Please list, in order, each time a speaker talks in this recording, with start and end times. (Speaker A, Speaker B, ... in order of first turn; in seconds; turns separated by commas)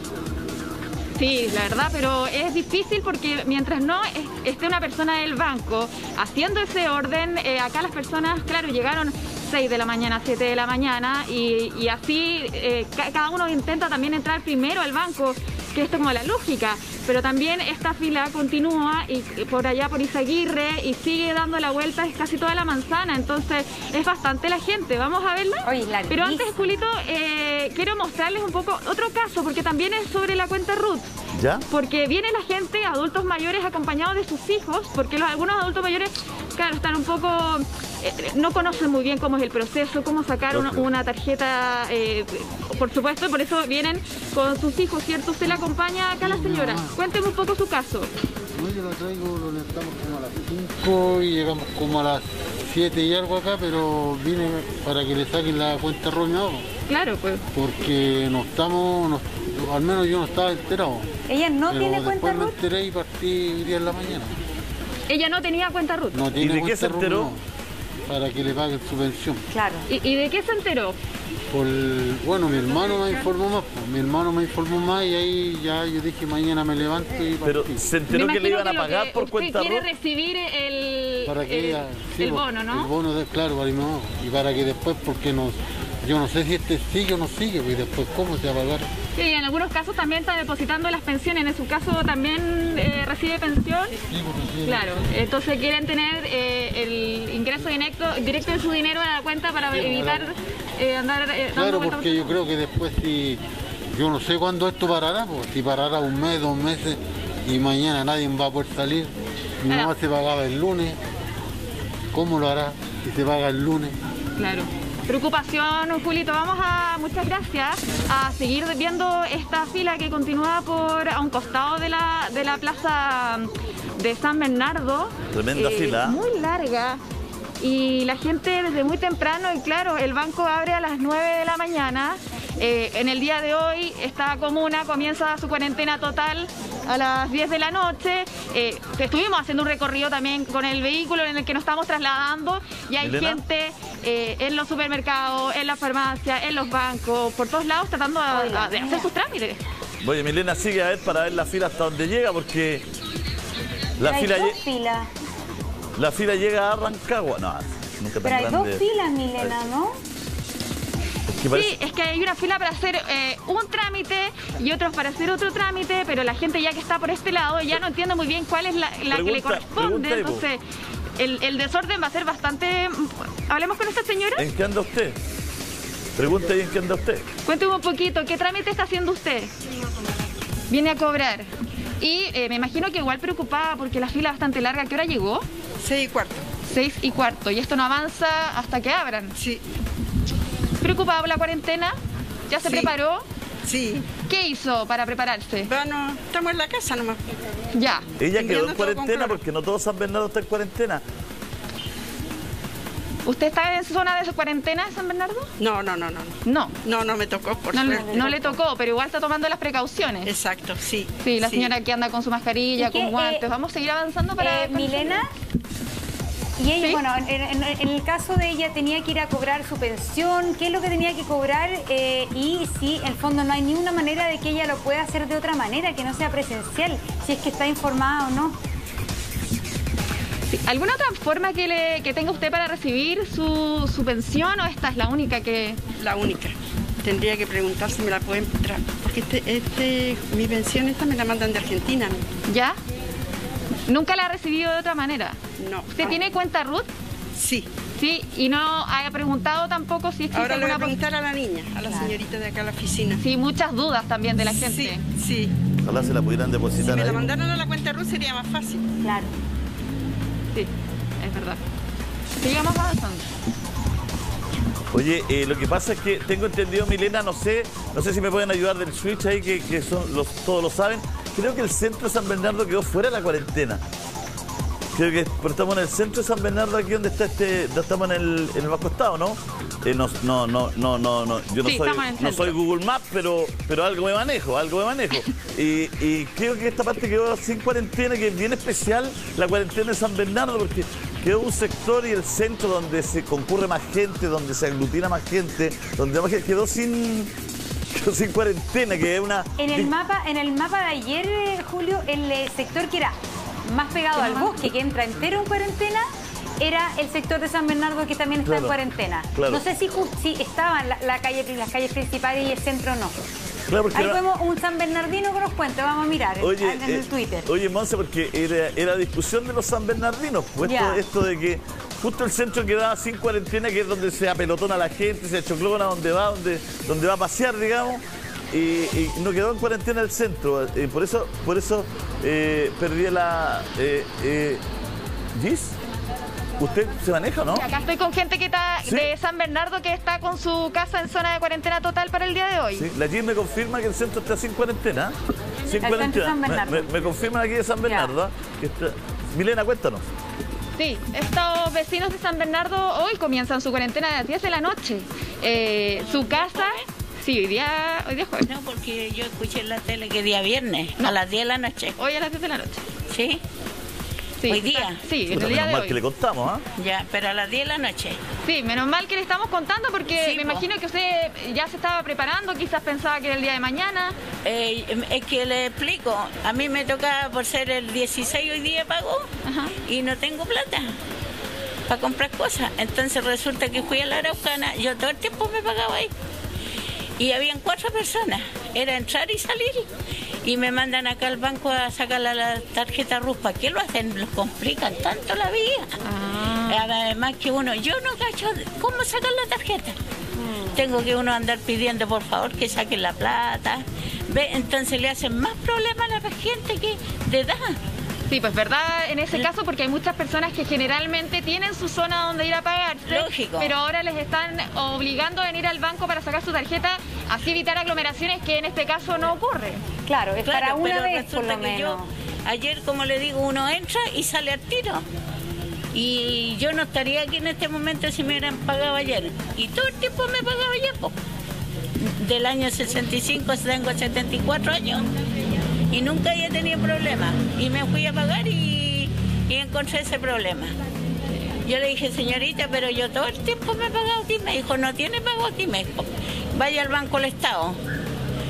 Speaker A: 1.2-31.1, Speaker B: 25.6-26.6, Speaker C: 31.3-31.6, Speaker A: 31.7-48.1, Speaker C: 40.5-40.8, Speaker D: 46.2-46.9, Speaker D: 48.5-56.7, Speaker A: 56.9-57.4, Speaker D: 57.5-61.1, Speaker B: 61.3-62.6, Speaker D: 61.7-64.4, Speaker A: 65.1-66.2, Speaker D: 66.1-67.4, Speaker C: 66.4-67.3, Speaker D: 68.1-69.5, Speaker B: 69.5-69.8, Speaker A: 69.9-71.0, Speaker D: 71.5-77.8, Speaker C: 77.4-79.9, Speaker A: 78.1-82.9, Speaker D: 81.2-88.9, Speaker A: 89.2-94.0, Speaker D: 94.1-94.9, Speaker A: 94.6-102.3, Speaker D: 99.7-100.2, Speaker D: 101.5-103.4, Speaker D: 103.9-111.0, Speaker D: 112.1-114.0, Speaker A: 114.4-127.0, Speaker C: 125.3-126.2, Speaker A: 127.6-149.6, Speaker C: 143.0-143.4, Speaker B: 148.3-149.1, Speaker C: 150.0-152.8, Speaker C: 154.0-154.6, Speaker B: 154.0-155.1, Speaker C: 155.9-158.8, Speaker B: 158.2-160.0, Speaker C: 161.3-161.7, Speaker A: 161.5-170.6, Speaker C: 169.1-170.4, Speaker A: 171.2-174.5, Speaker C: 174.3-175.2, Speaker C: 176.2-177.2, Speaker A: 177.4-179.5, Speaker A: 180.7-181.5, Speaker A: 182.0-185.4, Speaker E: 185.8-186.4, Speaker A: 186.7-189.3, Speaker E: 189.3-189.6, Speaker A: 190.8-191.9, Speaker A: 192.5-193.2, Speaker E: 192.6-192.9, Speaker E: 193.6-194.1, Speaker A: 194.2-195.7, Speaker E: 195.7-197.2, Speaker A: 197.7-198.1, Speaker C: 198.2-201.0, Speaker E: 198.3-199.4, Speaker A: 203.2-205.5, Speaker E: 205.6-208.6, Speaker A: 206.4-206.8, Speaker A: 207.7-210.3, Speaker B: 207.8-208.4, Speaker E: 210.2-211.7, Speaker A: 211.2-215.2, Speaker B: 212.8-213.5, Speaker B: 214.4-215.3, Speaker B: 216.6-228.6, Speaker A: 230.5-235.8, Speaker E: 236.0-242.3, Speaker A: 242.5-242.8, Speaker A: 243.9-245.4, Speaker E: 245.6-246.2, Speaker A: 245.9-246.9, Speaker E: 247.3-247.7, Speaker A: 248.0-251.0, Speaker E: 250.3-253.2, Speaker B: 251.9-252.2, Speaker A: 253.2-255.0, Speaker E: 254.5-255.5, Speaker C: 255.8-257.3, Speaker E: 256.8-258.9, Speaker B: 259.0-259.3, Speaker A: 260.5-261.6, Speaker A: 262.4-263.2, Speaker C: 264.9-273.8, Speaker C: 274.9-297.3, Speaker A: 281.6-282.6, Speaker C: 297.9-299.9, Speaker B: 299.6-306.1, Speaker A: 304.2-304.6, Speaker B: 306.6-313.1, Speaker C: 308.4-308.8, Speaker C: 309.3-309.6, Speaker C: 313.7-314.2, Speaker B: 313.9-317.5, Speaker C: 316.4-334.6, Speaker B: 320.6-321.0, Speaker C: 335.3-335.8, Speaker C: 336.6-337.7, Speaker A: 337.5-342.9, Speaker C: 338.8-339.1, Speaker C: 342.7-350.0, Speaker B: 345.8-346.9, Speaker B: 347.8-348.1, Speaker A: 350.8-358.5, Speaker F: 356.1-356.9, Speaker F: 358.4-362.0, Speaker A: 362.0-362.8, Speaker F: 363.1-363.4, Speaker A: 364.4-366.0, Speaker F: 364.4-365.0, Speaker C: 365.3-366.6, Speaker F: 366.8-368.2, Speaker A: 368.4-374.1, Speaker F: 370.1-370.6, Speaker F: 374.4-379.2, Speaker A: 379.4-379.8, Speaker F: 379.8-380.9, Speaker F: 381.9-386.1, Speaker F: 387.2-389.9, Speaker F: 390.4-396.0, Speaker A: 396.0-396.9, Speaker F: 396.6-399.9, Speaker B: 400.4-400.8, Speaker F: 400.7-407.8, Speaker A: 408.3-419.8, Speaker F: 413.1-413.7, Speaker B: 420.1-422.1, Speaker F: 420.4-425.0, Speaker F: 425.9-431.1, Speaker F: 432.0-435.0, Speaker F: 435.9-440.7, Speaker F: 441.6-447.8